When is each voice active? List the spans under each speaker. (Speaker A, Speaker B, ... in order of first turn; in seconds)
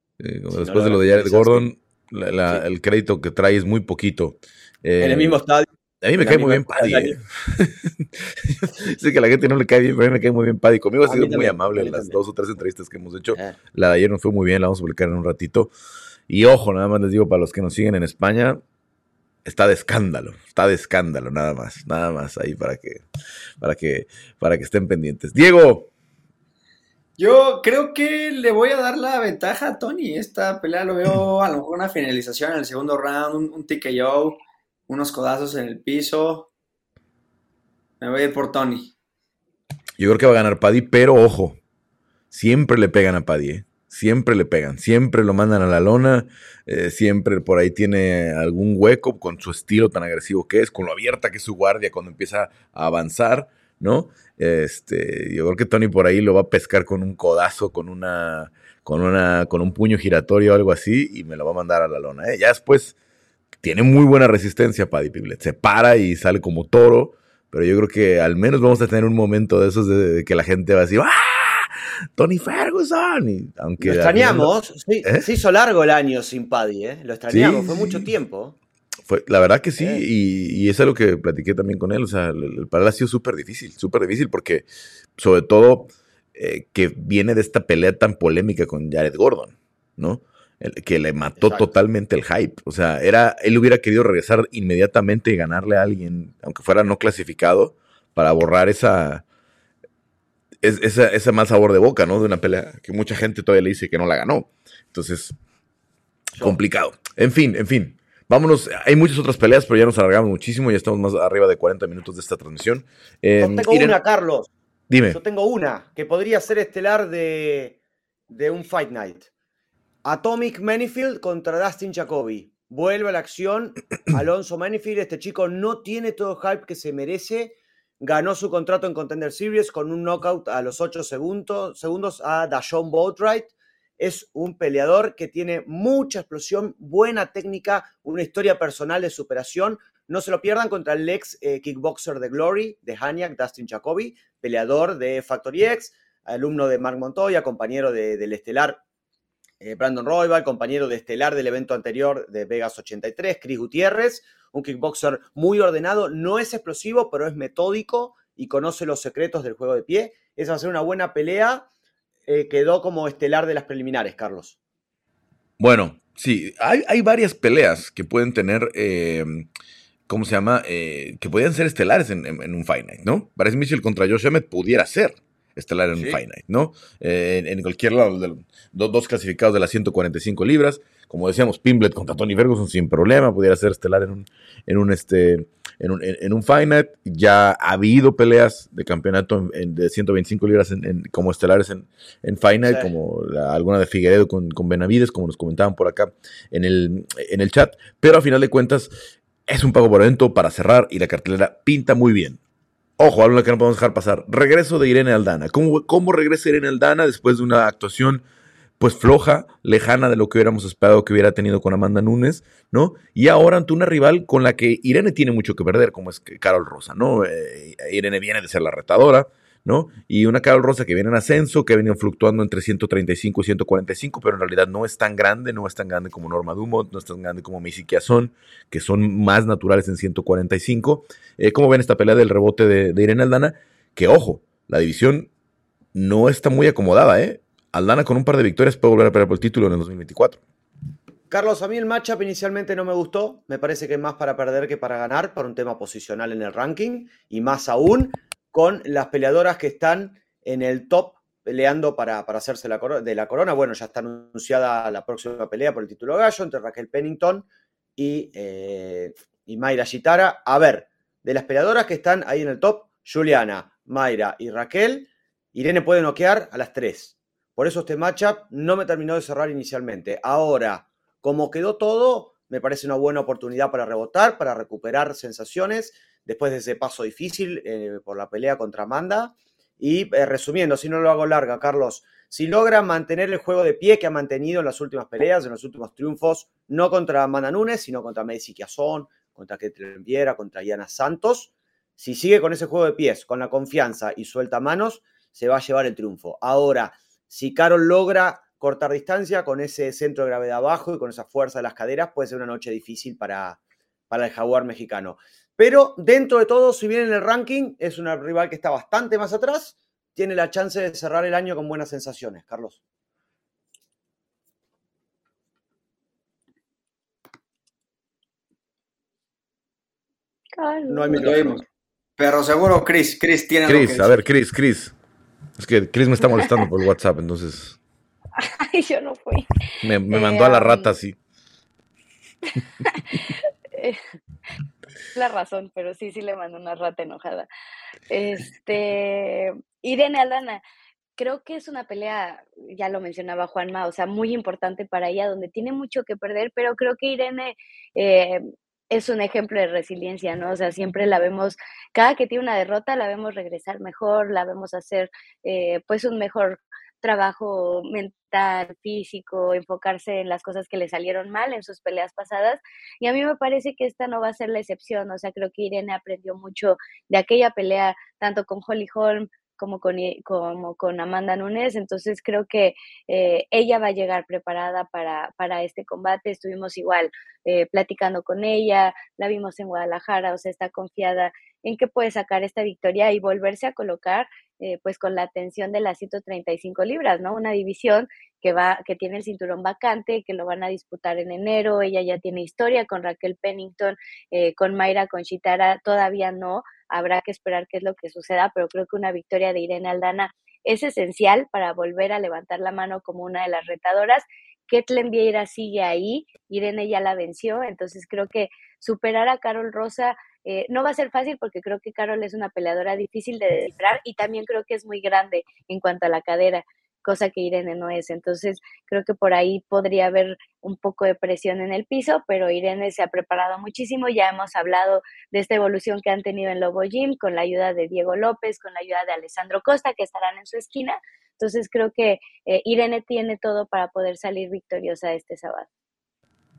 Speaker A: 0.2-5.4, 6.0-15.7, 16.3-18.6, 19.4-23.0, 23.6-25.9, 40.0-41.6, 42.3-63.0, 63.6-74.5, 77.3-78.1, 79.1-99.2, 100.6-105.3, 106.4-114.0, 114.9-115.2, 165.6-169.5, 170.1-198.9, 199.5-202.4, 203.0-208.2, 208.8-235.3, 235.9-240.4, 323.7-324.9, 325.6-327.8, 329.8-331.2
Speaker B: 0.5-1.7, 5.0-7.2, 11.1-12.2, 73.8-78.6, 79.8-80.0, 91.4-91.7, 113.4-114.5, 115.1-117.8, 118.3-119.3, 120.0-148.8, 149.6-161.7, 162.3-164.6, 192.6-192.9, 241.3-303.6, 304.1-312.8, 320.9-321.6
Speaker C: 27.2-36.5, 38.0-38.9, 321.1-321.6, 322.2-324.2
Speaker D: 320.5-321.2, 328.4-329.5, 330.1-330.9, 332.8-334.0, 335.1-337.5, 338.1-340.6, 341.2-435.7